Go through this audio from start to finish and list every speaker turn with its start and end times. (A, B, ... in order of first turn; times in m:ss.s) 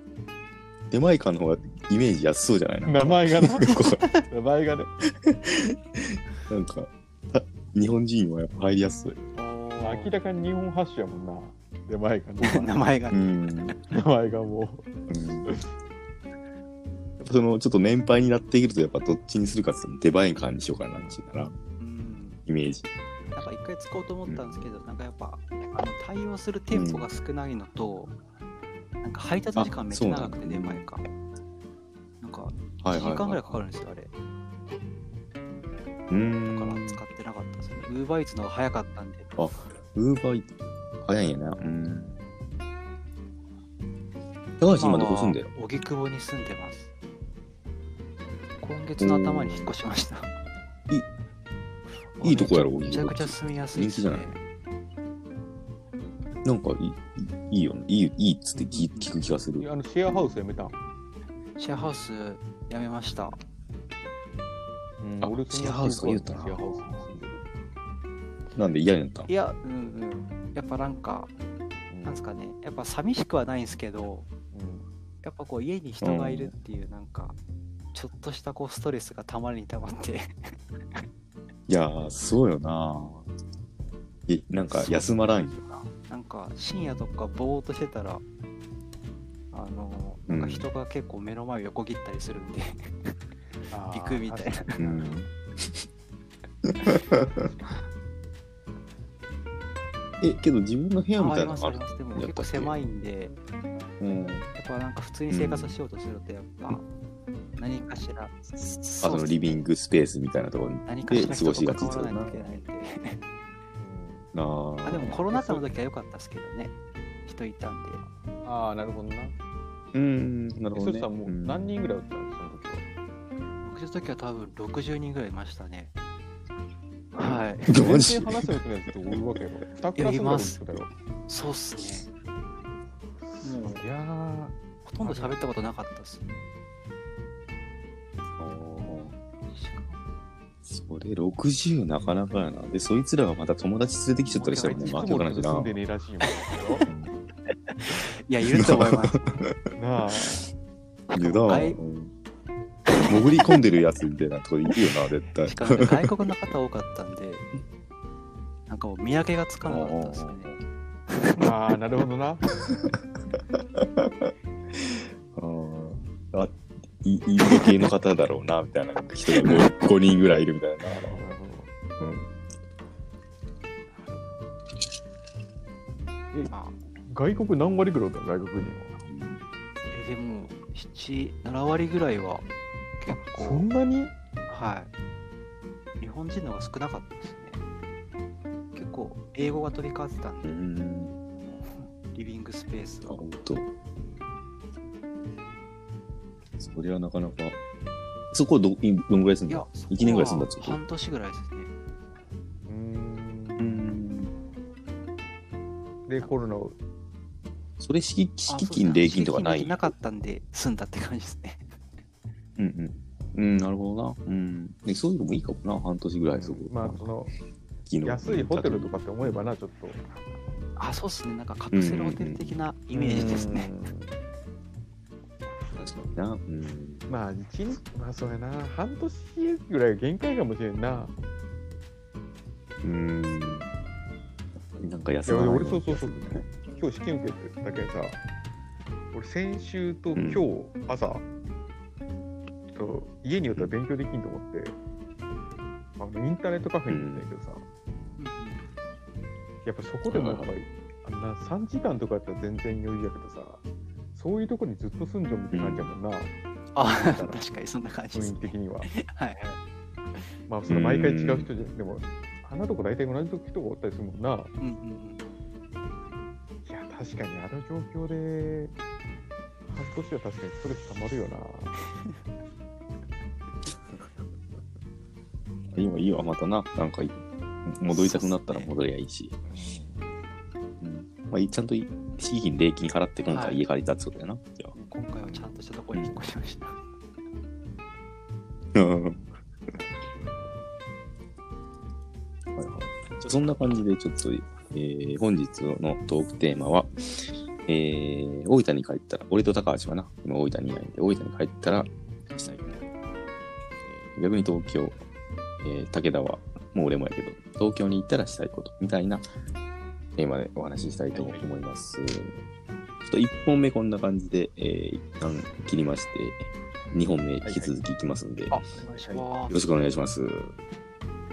0:00.9-0:04.0 A
0:02.8-0:04.9 B
0:05.2-0:09.2 A
0:09.4-0:10.1 C
0:09.8-0:12.8 B
0:12.4-0:13.8 C
0:13.1-0:13.8 A
0:13.9-0:14.9 B
0:15.1-0:15.6 A
0:17.2-0:21.5 A
0:20.9-0:21.2 B
0:21.8-0:22.4 C
0:22.4-0:22.8 A
0:23.4-0:28.1 C
0:24.2-0:24.6 A
0:26.7-0:27.1 A
0:29.0-0:31.0 C
0:29.6-0:30.9 A
0:32.2-0:34.1 C
0:32.8-0:33.6 A
0:36.1-0:37.0 A
0:36.3-0:39.3 C
0:39.4-0:40.5 A
0:41.0-0:42.2 A
0:41.5-0:42.2 B
0:44.6-0:45.5 A
0:44.7-0:46.9 C
0:48.6-0:50.3 C
0:49.0-0:49.7 A
0:52.2-0:54.4 C
0:52.2-0:54.4 A
0:56.4-1:00.2 A
0:58.7-0:59.1 C
0:59.6-1:00.8 B
1:01.6-1:03.4 C
1:05.0-1:07.4 B
1:05.2-1:06.7 A
1:08.5-1:09.3 A
1:09.3-1:11.3 C
1:11.9-1:12.2 B
1:12.0-1:14.3 C
1:14.5-1:14.9 B
1:15.2-1:17.4 C
1:16.0-1:16.5 A
1:17.9-1:21.0 C
1:21.7-1:23.3 A
1:24.3-1:25.9 A
1:24.6-1:25.2 C
1:26.1-1:28.2 C
1:29.5-1:33.2 C
1:30.3-1:30.7 A
1:33.7-1:35.3 B
1:33.9-1:34.8 C
1:34.8-1:35.3 A
1:36.6-1:37.3 A
1:40.2-1:42.8 A
1:41.2-1:43.4 C
1:44.0-1:44.5 A
1:44.5-1:46.8 C
1:45.3-1:45.8 A
1:47.6-1:49.6 C
1:49.0-1:52.6 A
1:50.8-1:53.2 C
1:53.8-1:54.3 B
1:54.3-1:55.3 A
1:54.8-1:56.7 C
1:55.3-1:55.6 B
1:57.2-1:58.0 C
1:58.4-1:59.4 B
1:59.9-2:01.8 A
2:00.7-2:02.8 B
2:03.6-2:05.9 C
2:07.1-2:07.8 C
2:07.7-2:08.5 A
2:07.7-2:10.9 B
2:10.0-2:10.6 C
2:11.3-2:12.0 C
2:13.2-2:15.5 B
2:13.4-2:13.8 C
2:14.8-2:16.4 C
2:18.3-2:19.1 A
2:19.5-2:20.0 C
2:20.6-2:25.8 A
2:24.2-2:25.2 C
2:24.4-2:26.8 B
2:26.4-2:26.8 C
2:26.8-2:27.1 A
2:27.7-2:29.5 C
2:28.5-2:29.6 A
2:29.7-2:30.4 B
2:31.1-2:31.8 C
2:31.1-2:32.1 A
2:32.9-2:33.5 C
2:33.1-2:36.1 A
2:35.4-2:37.4 C
2:38.7-2:40.5 C
2:39.6-2:40.6 A
2:41.1-2:41.4 C
2:41.4-2:42.5 B
2:42.5-2:51.1 A
2:50.9-2:51.7 B
2:52.0-2:52.3 A
2:56.5-2:56.8 C
2:57.0-2:59.0 B
2:59.0-2:59.4 A
2:59.9-3:02.5 C
3:03.0-3:03.6 C
3:03.1-3:04.1 B
3:04.5-3:04.9 C
3:06.0-3:07.6 C
3:08.7-3:10.6 C
3:10.4-3:11.2 A
3:11.4-3:13.2 C
3:13.0-3:13.7 A
3:16.6-3:17.6 A
3:18.3-3:20.8 A
3:19.5-3:21.7 C
3:22.6-3:23.8 B
3:23.6-3:24.3 A
3:26.1-3:26.8 B
3:27.8-3:29.9 A
3:28.5-3:31.6 C
3:32.6-3:37.2 A
3:36.3-3:37.3 B
3:37.9-3:39.5 A
3:38.0-3:40.0 B
3:40.8-3:43.7 C
3:41.7-3:42.6 A
3:42.9-3:44.2 B
3:45.7-3:47.0 A
3:47.1-3:51.1 B
3:52.8-3:53.7 A
3:54.6-3:56.5 A
3:55.2-3:58.2 B
3:59.1-4:01.2 B
4:00.1-4:00.4 A
4:02.7-4:04.8 B
4:06.0-4:07.6 B
4:06.9-4:07.3 A
4:08.2-4:08.6 C
4:09.6-4:13.6 B
4:10.1-4:10.5 A
4:14.1-4:17.4 B
4:15.5-4:15.9 A
4:16.7-4:19.6 C
4:18.1-4:18.9 B
4:20.5-4:24.5 B
4:20.7-4:21.5 A
4:24.6-4:25.4 C
4:26.6-4:28.7 B
4:29.7-4:31.7 B
4:35.7-4:39.4 A
4:37.9-4:38.7 C
4:39.5-4:40.1 B
4:40.8-4:44.7 A
4:43.3-4:43.6 C
4:44.7-4:46.8 C
4:45.3-4:46.2 A
4:48.7-4:49.7 A
4:52.5-5:02.8 A
5:03.8-5:05.0 A
5:05.6-5:09.2 A
5:10.2-5:12.4 A
5:11.1-5:11.5 B
5:13.0-5:18.7 A
5:17.4-5:17.7 B
5:18.5-5:19.6 C
5:18.9-5:19.2 B
5:19.4-5:20.6 A